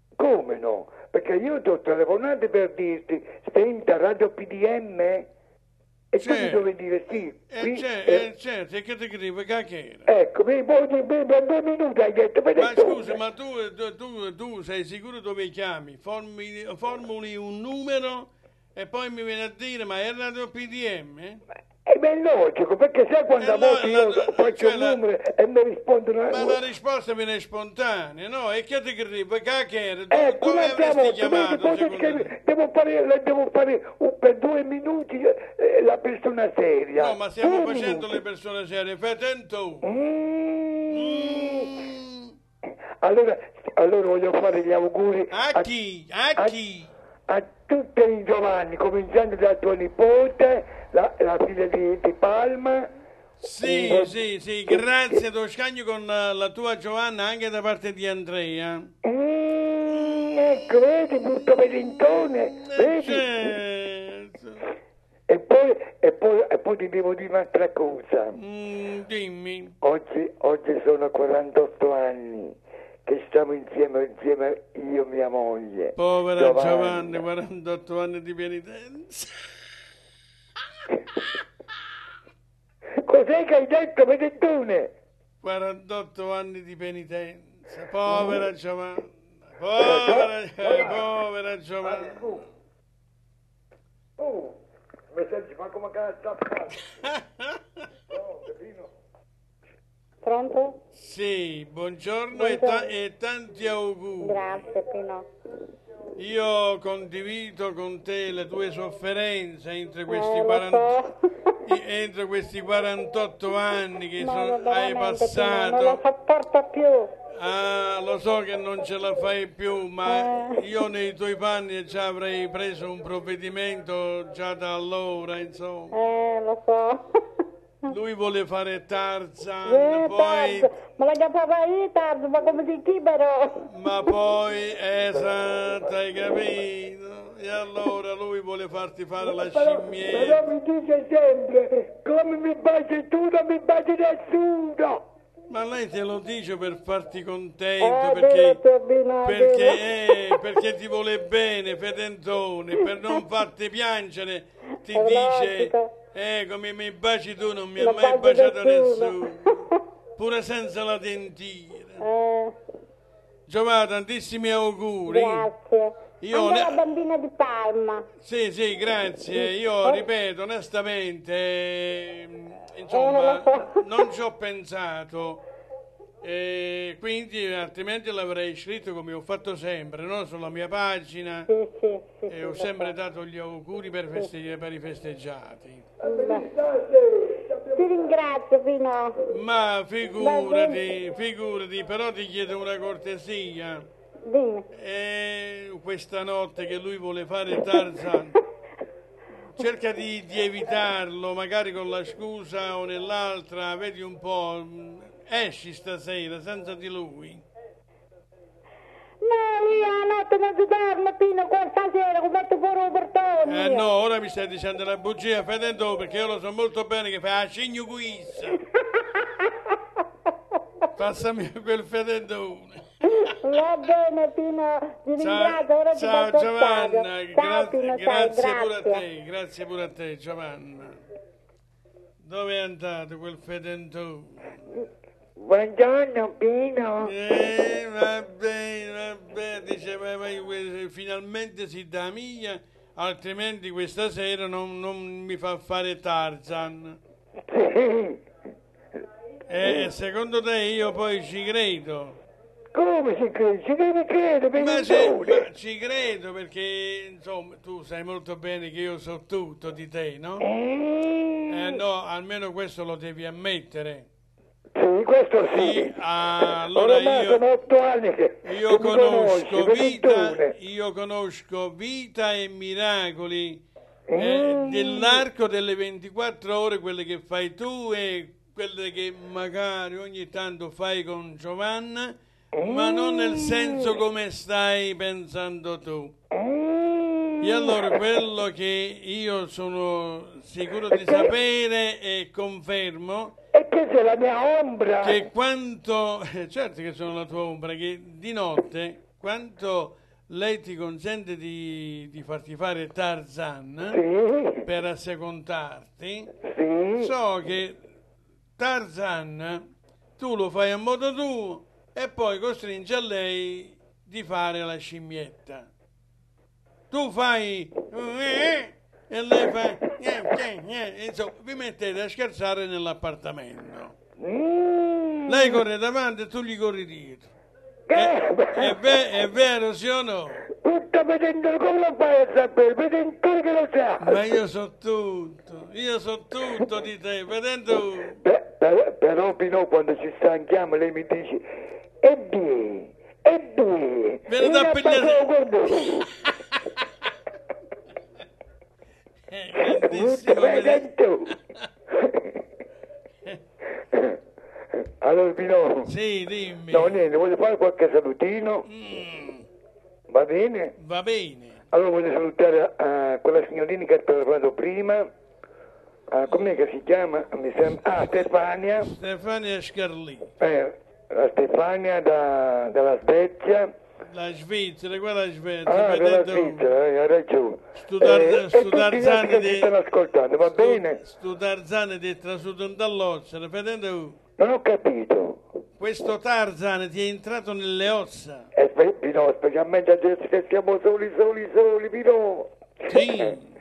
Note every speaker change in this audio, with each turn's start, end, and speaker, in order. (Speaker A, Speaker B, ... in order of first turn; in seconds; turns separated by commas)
Speaker A: 0.2-5.3, Speaker A: 6.1-8.2, Speaker B: 6.2-6.6, Speaker B: 7.5-10.1, Speaker A: 10.1-13.1, Speaker B: 12.6-21.4, Speaker A: 21.9-26.6, Speaker B: 23.4-25.0, Speaker B: 26.3-32.3, Speaker A: 30.1-38.1, Speaker B: 37.0-39.9, Speaker A: 39.8-41.7, Speaker B: 40.9-42.3, Speaker A: 43.0-45.6, Speaker B: 45.3-46.9, Speaker A: 47.3-52.9, Speaker B: 53.4-58.9, Speaker A: 53.6-54.1, Speaker A: 59.0-63.3, Speaker B: 62.6-64.6, Speaker A: 65.3-68.4, Speaker B: 68.3-69.7, Speaker A: 69.8-77.2, Speaker B: 76.0-79.4, Speaker A: 83.0-84.9, Speaker B: 85.4-92.3, Speaker A: 89.8-91.0, Speaker A: 91.8-92.4, Speaker A: 94.2-94.5, Speaker A: 95.1-96.8, Speaker B: 97.0-97.6, Speaker A: 98.1-98.9, Speaker C: 100.2-100.8, Speaker B: 100.9-104.7, Speaker C: 102.3-102.9, Speaker C: 104.2-105.2, Speaker B: 106.2-111.1, Speaker C: 110.1-111.1, Speaker B: 111.6-116.0, Speaker C: 114.2-117.1, Speaker B: 117.3-126.0, Speaker C: 120.1-120.6, Speaker C: 125.9-127.1, Speaker B: 127.9-130.7, Speaker C: 129.7-133.7, Speaker B: 133.7-140.4, Speaker A: 139.3-145.1, Speaker B: 145.5-148.6, Speaker C: 147.8-149.9, Speaker B: 149.2-159.6, Speaker C: 154.9-155.9, Speaker C: 157.8-159.5, Speaker B: 160.2-162.1, Speaker C: 162.0-162.6, Speaker B: 163.5-165.5, Speaker C: 165.1-168.1, Speaker B: 166.2-166.8, Speaker B: 168.2-175.4, Speaker C: 169.3-170.0, Speaker C: 172.9-173.8, Speaker B: 176.2-181.5, Speaker C: 181.5-182.9, Speaker B: 182.3-185.8, Speaker C: 186.0-186.5, Speaker A: 186.0-187.8, Speaker C: 187.7-189.2, Speaker B: 189.3-193.9, Speaker C: 190.2-190.8, Speaker C: 194.3-194.7, Speaker B: 194.7-198.4, Speaker B: 199.6-207.4, Speaker C: 209.2-213.9, Speaker B: 213.4-218.6, Speaker B: 221.0-223.3, Speaker C: 223.2-229.0, Speaker B: 225.2-231.0, Speaker B: 232.2-234.6, Speaker A: 235.4-237.1, Speaker B: 237.0-247.0, Speaker A: 247.5-248.2, Speaker B: 249.5-252.2, Speaker A: 252.7-255.4, Speaker B: 254.6-260.4, Speaker A: 260.4-261.8, Speaker B: 261.5-264.1, Speaker A: 264.7-265.9, Speaker B: 265.4-267.4, Speaker A: 266.7-270.5, Speaker B: 268.4-273.6, Speaker A: 274.1-275.2, Speaker B: 274.2-286.1, Speaker A: 282.6-283.9, Speaker A: 286.3-287.9, Speaker B: 287.4-293.4, Speaker A: 290.9-291.3, Speaker A: 293.5-295.2, Speaker B: 295.0-304.0, Speaker A: 303.9-304.6, Speaker B: 304.6-306.3, Speaker A: 306.4-307.1, Speaker B: 307.0-307.8, Speaker B: 308.6-309.6, Speaker B: 310.2-315.7, Speaker B: 316.9-323.9, Speaker A: 324.2-325.6, Speaker B: 325.3-327.3, Speaker A: 327.9-328.8, Speaker B: 327.9-330.4, Speaker A: 330.6-334.2, Speaker B: 334.0-338.2, Speaker A: 338.2-341.4, Speaker A: 342.0-346.1, Speaker B: 344.3-346.3, Speaker B: 349.3-350.9, Speaker A: 349.7-351.4, Speaker A: 352.0-352.3, Speaker A: 353.9-354.2, Speaker A: 355.0-355.9, Speaker B: 355.9-357.0, Speaker A: 356.7-358.6, Speaker B: 358.7-359.5, Speaker A: 360.1-360.7, Speaker B: 360.8-361.6, Speaker A: 361.7-365.1, Speaker A: 366.1-368.9, Speaker B: 367.8-370.3, Speaker A: 370.4-373.7, Speaker B: 374.1-376.7, Speaker A: 375.6-381.0, Speaker B: 377.8-379.7, Speaker B: 380.4-384.2, Speaker A: 384.4-385.4, Speaker B: 385.8-388.5, Speaker A: 388.6-392.5, Speaker B: 392.9-393.5